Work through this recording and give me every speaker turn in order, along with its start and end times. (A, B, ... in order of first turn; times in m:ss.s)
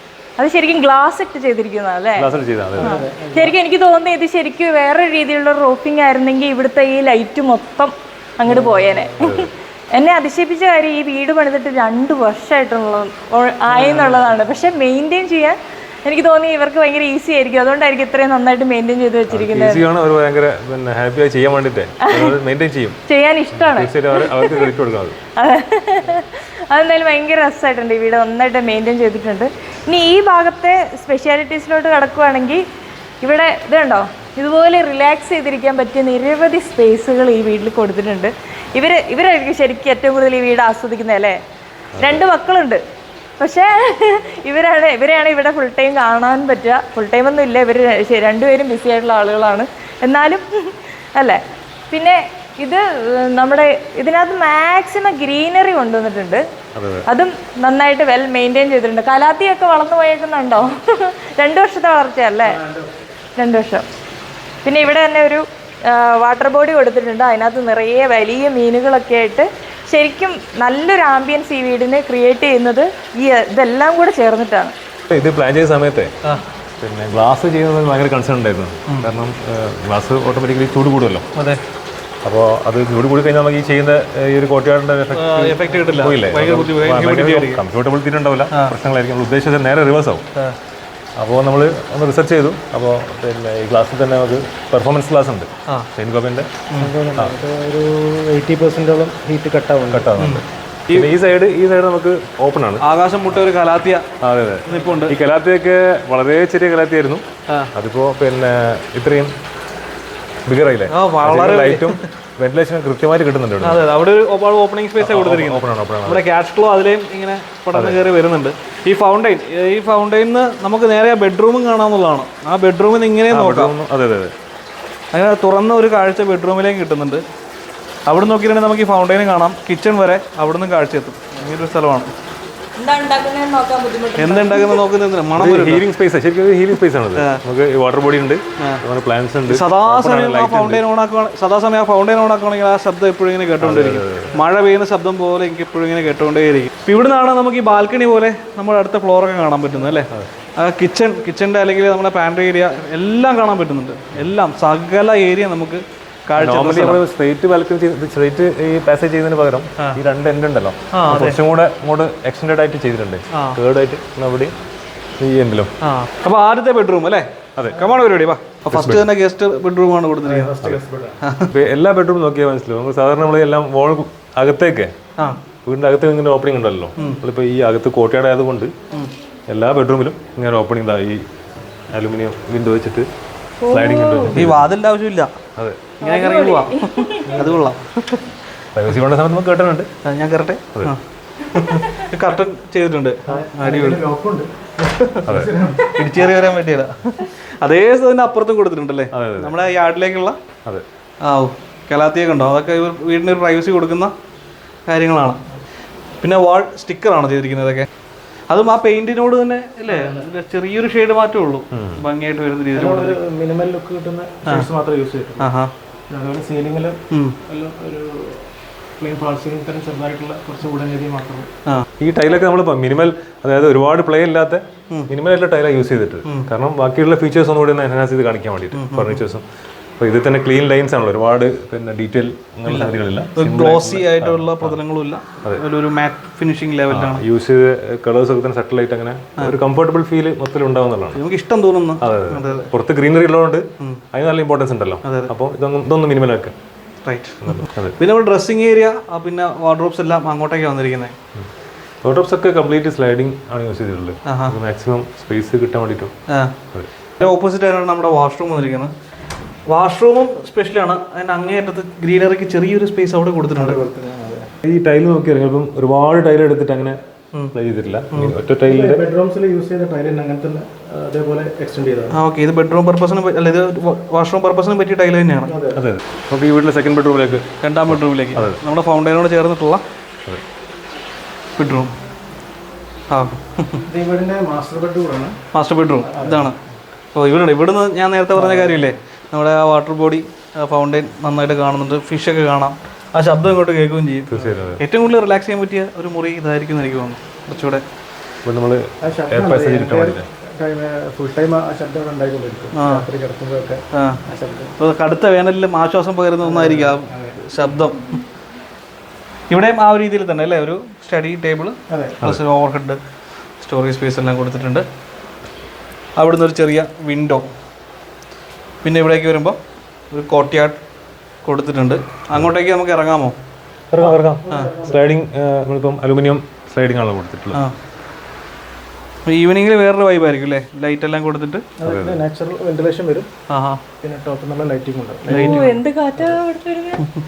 0:00.4-0:19.8 A
0:02.2-0:03.0 B
0:02.8-0:03.6 C
0:08.4-0:09.1 C
0:09.2-0:09.5 B
0:13.8-0:14.2 C
0:19.3-0:23.0 B
0:22.1-0:22.4 A
0:23.1-0:24.7 A
0:23.5-0:25.2 B
0:25.4-0:32.6 A
0:33.2-0:41.4 A
0:41.9-0:42.2 B
0:42.0-0:42.8 A
0:43.4-0:56.4 A
0:56.7-0:57.1 B
0:57.1-1:02.6 A
1:02.5-1:02.8 C
1:03.4-1:03.8 A
1:04.6-1:14.7 A
1:15.1-1:16.1 B
1:16.8-1:21.3 B
1:21.3-1:21.6 D
1:22.2-1:30.2 B
1:25.1-1:27.6 D
1:31.2-1:37.3 B
1:36.8-1:40.1 C
1:39.9-1:42.8 B
1:40.2-1:41.1 D
1:42.8-1:44.1 D
1:44.2-1:49.3 B
1:44.7-1:45.1 D
1:50.4-1:53.9 B
1:50.9-1:52.1 D
1:53.6-2:03.7 D
1:55.0-1:56.2 B
1:57.7-1:58.0 B
2:03.3-2:04.3 B
2:05.1-2:07.2 D
2:08.1-2:12.1 D
2:12.8-2:14.8 A
2:14.2-2:15.8 D
2:15.3-2:20.8 B
2:19.5-2:37.0 D
2:23.6-2:24.3 B
2:36.4-2:44.5 B
2:40.9-2:41.4 D
2:43.3-2:43.6 D
2:45.2-2:45.7 B
2:45.8-2:50.5 D
2:48.7-2:49.1 B
2:50.2-2:51.2 C
2:51.2-2:51.5 D
2:51.5-2:54.9 B
2:55.6-2:58.7 B
2:59.5-3:01.2 B
3:01.9-3:03.1 B
3:03.6-3:04.4 A
3:03.7-3:04.7 B
3:04.3-3:05.3 D
3:05.6-3:05.9 B
3:06.0-3:08.3 D
3:06.0-3:07.3 A
3:07.3-3:07.6 C
3:08.7-3:09.9 B
3:10.0-3:14.0 D
3:13.3-3:15.9 C
3:15.2-3:15.5 B
3:16.0-3:20.4 D
3:19.1-3:19.5 B
3:21.2-3:24.1 D
3:24.9-3:25.4 D
3:26.2-3:27.9 D
3:28.5-3:33.2 D
3:29.9-3:30.2 C
3:31.7-3:32.0 B
3:32.7-3:35.5 C
3:35.4-3:35.7 D
3:36.1-3:38.4 C
3:37.1-3:37.4 D
3:39.0-3:41.5 C
3:42.0-3:49.4 B
3:48.7-3:49.2 D
3:50.0-3:54.8 B
3:52.6-3:57.2 D
3:56.9-4:01.2 B
4:01.1-4:02.7 D
4:02.0-4:06.6 B
4:05.0-4:05.3 D
4:07.0-4:11.2 D
4:07.4-4:08.0 B
4:12.0-4:16.1 B
4:14.2-4:14.6 D
4:16.3-4:16.5 D
4:17.2-4:18.9 D
4:19.7-4:23.8 D
4:23.6-4:24.5 C
4:24.6-4:27.0 B
4:27.5-4:29.0 B
4:28.6-4:32.2 C
4:32.1-4:35.5 D
4:35.5-4:35.8 C
4:35.7-4:38.6 B
4:37.6-4:39.8 D
4:41.6-4:41.9 D
4:43.1-4:43.8 D
4:43.9-4:45.4 C
4:45.5-4:46.6 D
4:46.0-4:46.5 C
4:47.1-4:57.8 D
4:48.3-4:48.8 C
4:54.3-4:54.8 B
4:58.4-5:00.3 B
4:59.0-5:04.7 C
5:02.7-5:03.0 D
5:03.9-5:04.2 D
5:04.8-5:08.2 D
5:06.4-5:07.4 C
5:09.5-5:13.0 D
5:11.9-5:12.2 C
5:13.6-5:14.8 D
5:16.2-5:17.5 D
5:18.8-5:19.6 D
5:20.1-5:20.8 D
5:21.4-5:23.4 D
5:23.9-5:27.6 B
5:24.0-5:25.0 C
5:29.3-5:31.7 D
5:31.8-5:33.3 C
5:31.8-5:32.2 B
5:33.5-5:33.8 D
5:34.0-5:36.4 C
5:35.3-5:37.1 A
5:35.3-5:35.7 D